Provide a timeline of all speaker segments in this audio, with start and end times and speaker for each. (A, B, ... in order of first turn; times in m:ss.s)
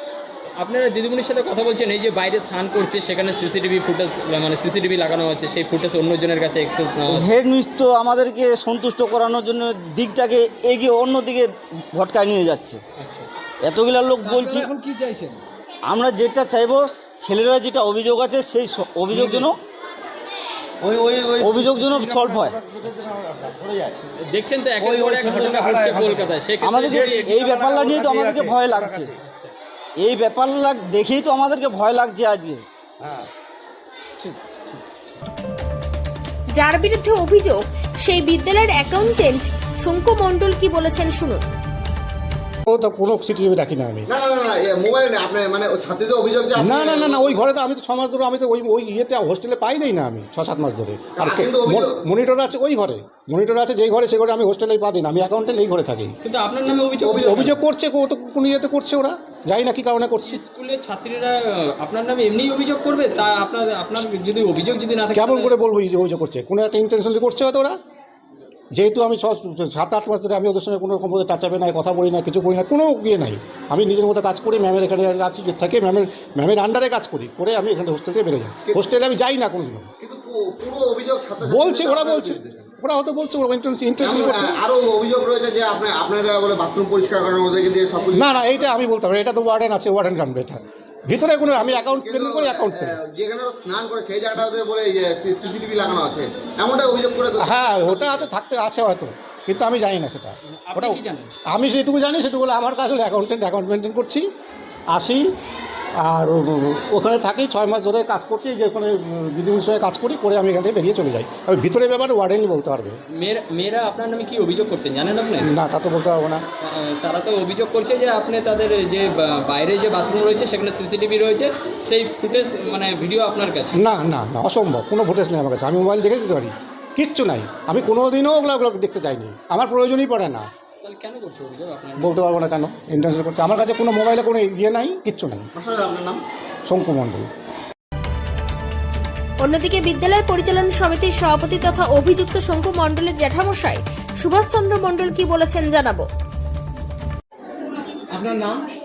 0:00.6-0:07.2 A
0:07.1-0:12.8 B
0:13.0-0:13.3 A
0:13.6-0:14.7 B
0:14.2-0:15.4 C
0:15.9-0:19.6 B
0:20.8-0:24.0 D
0:21.4-0:22.6 B
0:24.3-0:27.4 A
0:24.8-0:26.3 D
0:26.6-0:29.1 B
0:26.8-0:29.0 D
0:27.5-0:27.9 C
0:29.2-0:29.5 A
0:30.0-0:32.6 B
0:33.0-0:33.3 D
0:34.2-0:34.8 C
0:36.6-0:41.4 E
0:42.7-0:44.1 F
0:44.1-0:47.4 D
0:46.6-0:56.2 F
0:51.2-0:52.0 D
0:56.2-0:57.5 A
0:57.0-0:57.5 D
0:57.1-1:00.4 F
1:00.3-1:05.6 A
1:05.1-1:07.8 F
1:08.7-1:19.9 F
1:20.0-1:22.7 D
1:21.4-1:24.6 F
1:24.0-1:28.6 D
1:28.1-1:33.0 F
1:31.7-1:38.3 D
1:37.4-1:44.3 F
1:40.5-1:41.3 A
1:44.9-1:45.4 F
1:46.0-1:53.0 F
1:53.2-1:55.5 A
1:55.4-1:56.4 F
1:56.6-2:03.8 A
2:03.8-2:10.5 F
2:10.8-2:12.1 A
2:12.0-2:15.5 F
2:15.6-2:16.2 D
2:16.7-2:17.3 F
2:19.4-2:26.0 E
2:28.1-2:28.6 C